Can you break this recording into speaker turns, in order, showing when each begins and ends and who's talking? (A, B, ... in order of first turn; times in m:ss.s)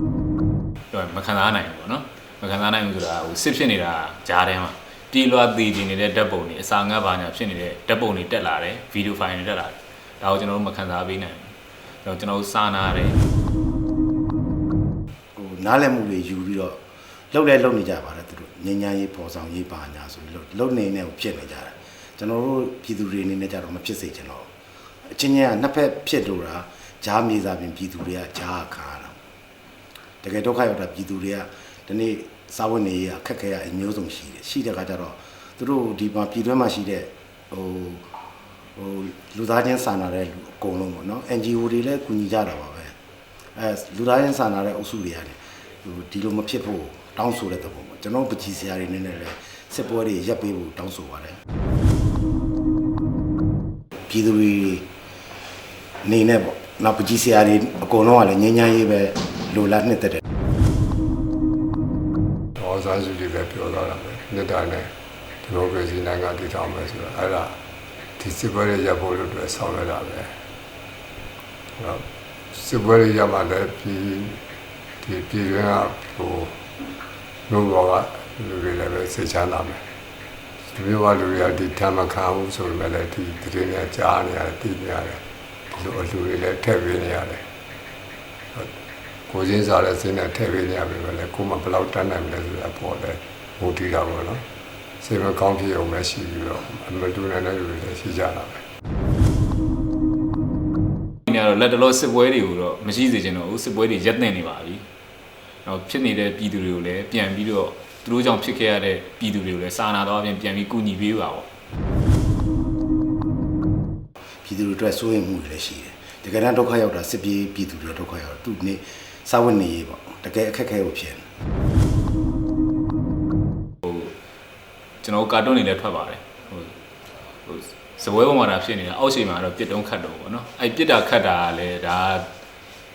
0:00.9-0:13.2 A
0:15.4-0:16.8 B
0:17.3-0:24.5 B
0:25.1-0:29.2 B
0:30.2-0:38.0 B
0:38.8-0:42.9 B
0:43.6-0:51.4 B
0:54.1-0:54.8 B
0:56.0-1:00.2 B
1:02.6-1:07.6 C
1:08.2-1:10.4 C
1:11.8-1:14.4 C
1:15.0-1:16.6 C
1:17.5-1:19.8 C
1:20.7-1:27.5 C
1:29.3-1:34.4 C
1:35.0-1:38.6 C
1:41.3-1:44.8 A
1:45.6-1:51.5 A
1:54.4-2:01.2 B
2:03.8-2:04.1 A
2:05.0-2:06.8 A
2:07.5-2:12.3 A